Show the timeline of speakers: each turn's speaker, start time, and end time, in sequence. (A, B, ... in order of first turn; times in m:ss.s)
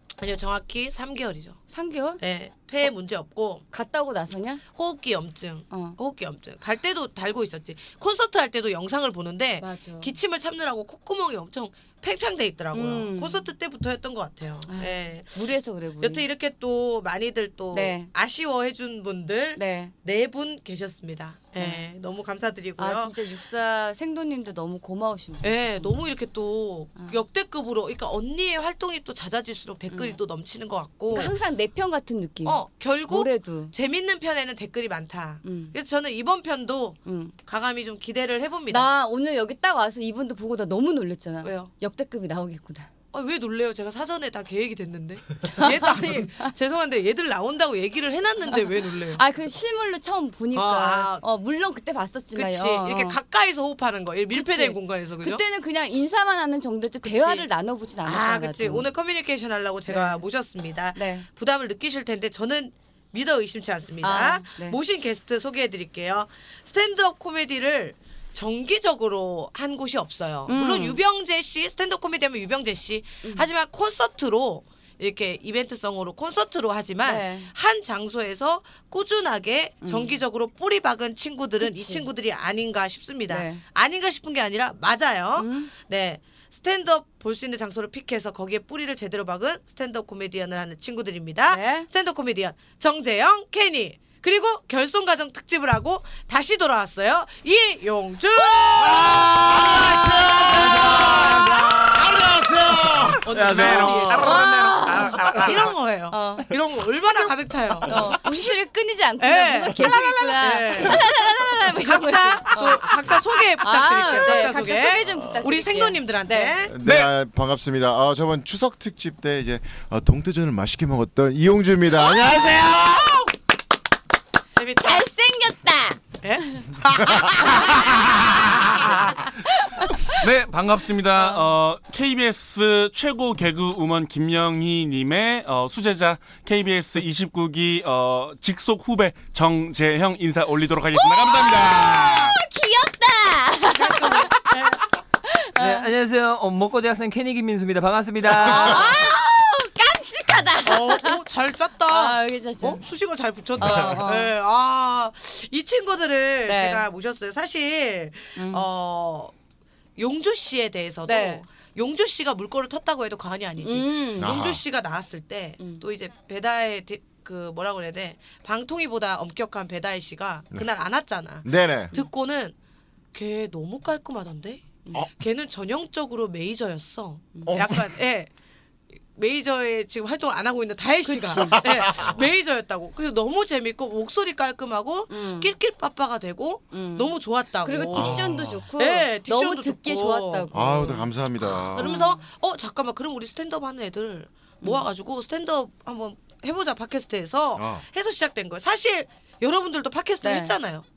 0:00.2-0:01.6 A
0:01.7-0:02.2 B
0:02.2-0:03.6 A
0:03.7-0:04.6 B
0:04.7-0:15.4 A
0:05.7-0:06.0 B
0:09.6-0:10.1 B
0:12.7-0:13.4 B
0:14.7-0:16.2 B
0:16.0-0:23.1 A
0:17.7-0:18.1 B
0:19.6-0:19.9 B
0:21.6-0:21.8 B
0:22.8-0:26.0 B
0:25.4-0:31.3 A
0:29.9-0:30.2 B
0:31.1-0:33.7 B
0:32.4-0:38.9 A
0:35.4-0:35.7 B
0:37.0-0:37.3 B
0:38.7-0:42.9 B
0:41.4-0:41.7 A
0:43.1-0:49.2 A
0:45.5-0:46.5 B
0:48.5-0:53.2 B
0:50.5-0:51.2 A
0:52.3-0:55.4 A
0:54.3-0:58.9 B
0:57.0-0:57.5 A
0:58.0-1:39.2 A
0:59.9-1:00.2 B
1:00.9-1:01.3 B
1:04.0-1:04.8 B
1:10.5-1:11.0 B
1:17.0-1:17.5 B
1:19.8-1:20.2 B
1:21.6-1:22.0 B
1:23.3-1:23.6 B
1:25.4-1:25.7 B
1:31.5-1:31.9 B
1:39.0-1:45.7 C
1:39.4-1:41.2 D
1:41.9-1:43.2 D
1:43.2-1:44.4 A
1:43.5-1:45.6 E
1:43.8-1:45.4 B
1:45.4-1:48.5 A
1:46.1-1:46.5 B
1:47.8-1:56.5 B
1:49.2-1:56.8 A
1:55.0-1:55.4 D
1:56.6-2:03.3 D
1:56.8-1:57.1 E
2:02.0-2:03.0 B
2:04.5-2:05.1 A
2:04.8-2:06.6 B
2:06.2-2:07.9 A
2:07.4-2:07.9 B
2:08.0-2:08.9 E
2:08.8-2:10.2 B
2:10.1-2:22.4 E
2:11.2-2:11.4 B
2:20.9-2:24.4 B
2:23.8-2:24.7 A
2:25.3-2:25.9 B
2:25.6-2:29.0 C
2:28.2-2:31.2 B
2:28.5-2:28.8 A
2:30.6-2:39.3 A
2:31.9-2:32.8 B
2:33.6-2:34.0 D
2:33.6-2:34.3 B
2:36.4-2:36.8 B
2:38.4-2:38.6 B
2:40.0-2:52.5 A
2:41.1-2:41.4 B
2:43.6-2:44.4 B
2:44.2-2:44.6 D
2:45.6-2:45.8 B
2:51.4-2:51.9 D
2:53.1-2:58.3 A
2:57.4-2:57.6 B
2:57.5-2:57.9 D
2:59.1-3:10.5 A
3:01.0-3:01.6 B
3:01.6-3:02.2 D
3:05.1-3:05.5 B
3:06.7-3:11.1 B
3:07.9-3:08.6 D
3:10.5-3:12.0 D
3:11.7-3:20.8 A
3:11.7-3:12.2 B
3:17.6-3:17.8 D
3:20.2-3:20.5 B